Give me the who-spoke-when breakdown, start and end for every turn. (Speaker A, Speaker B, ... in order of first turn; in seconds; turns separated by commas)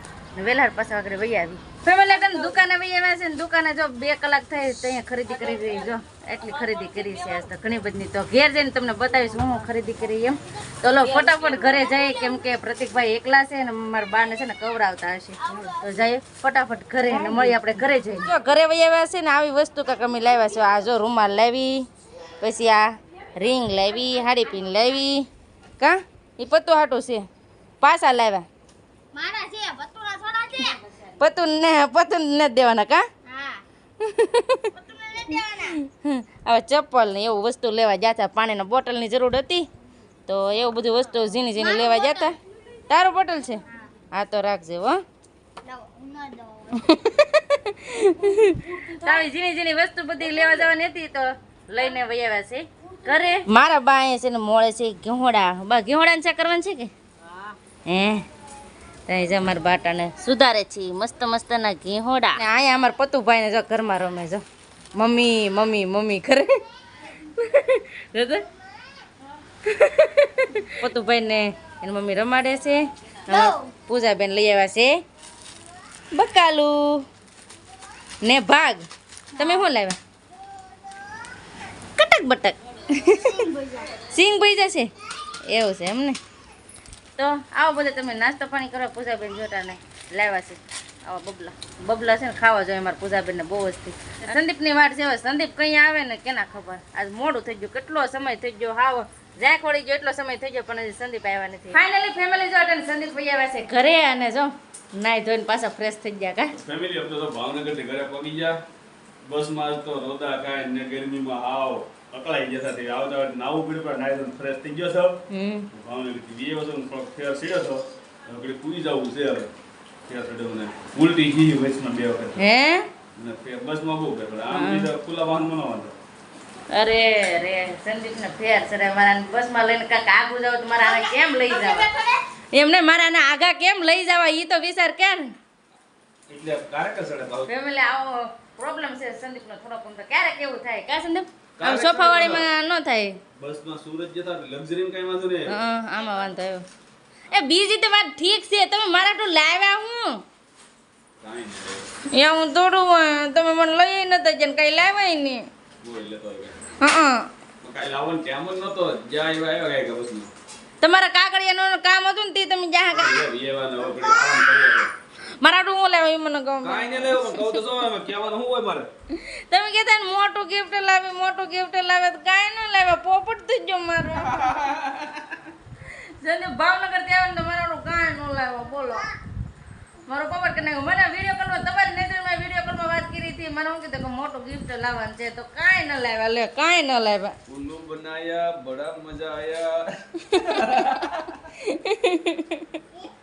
Speaker A: 0.4-21.9, Speaker A: 22.4-25.3, Speaker A: 25.8-27.2, Speaker A: 27.8-28.4, Speaker B: 29.1-30.8, Speaker A: 31.2-33.1, Speaker B: 33.2-33.6, Speaker A: 34.0-34.7, Speaker B: 34.7-35.8, Speaker A: 35.8-39.7, Speaker A: 40.3-42.4, Speaker B: 41.6-42.3, Speaker A: 42.9-45.0, Speaker B: 45.6-46.9, Speaker A: 46.7-56.9, Speaker B: 48.7-49.2, Speaker A: 57.9-58.2, Speaker A: 59.1-64.4, Speaker A: 64.9-66.5, Speaker A: 67.2-68.4, Speaker A: 69.6-74.9, Speaker B: 73.3-73.7, Speaker A: 76.1-77.0, Speaker A: 78.2-80.0, Speaker B: 79.4-79.7, Speaker A: 82.0-83.5, Speaker B: 83.2-83.9, Speaker A: 84.0-84.9, Speaker A: 85.5-86.2, Speaker A: 87.2-106.5, Speaker C: 106.5-108.6, Speaker C: 109.2-119.5, Speaker A: 115.3-115.7, Speaker C: 120.1-122.4, Speaker A: 122.4-122.9, Speaker C: 123.1-126.0, Speaker A: 124.5-124.9, Speaker A: 126.7-131.9, Speaker B: 131.6-132.2, Speaker A: 132.5-135.3, Speaker C: 136.3-137.5, Speaker A: 137.5-143.2, Speaker C: 141.6-142.5, Speaker C: 143.3-145.6, Speaker A: 145.5-146.6, Speaker A: 147.3-150.2, Speaker C: 151.2-151.9, Speaker A: 152.1-155.4, Speaker C: 155.8-156.6, Speaker A: 156.8-157.3, Speaker C: 157.6-160.3, Speaker A: 160.8-163.2, Speaker C: 162.9-164.9, Speaker A: 165.4-167.6, Speaker C: 166.6-168.9, Speaker A: 169.1-174.6, Speaker C: 174.3-175.4, Speaker A: 175.8-179.1, Speaker A: 180.1-187.4, Speaker C: 187.5-191.4, Speaker A: 191.6-192.8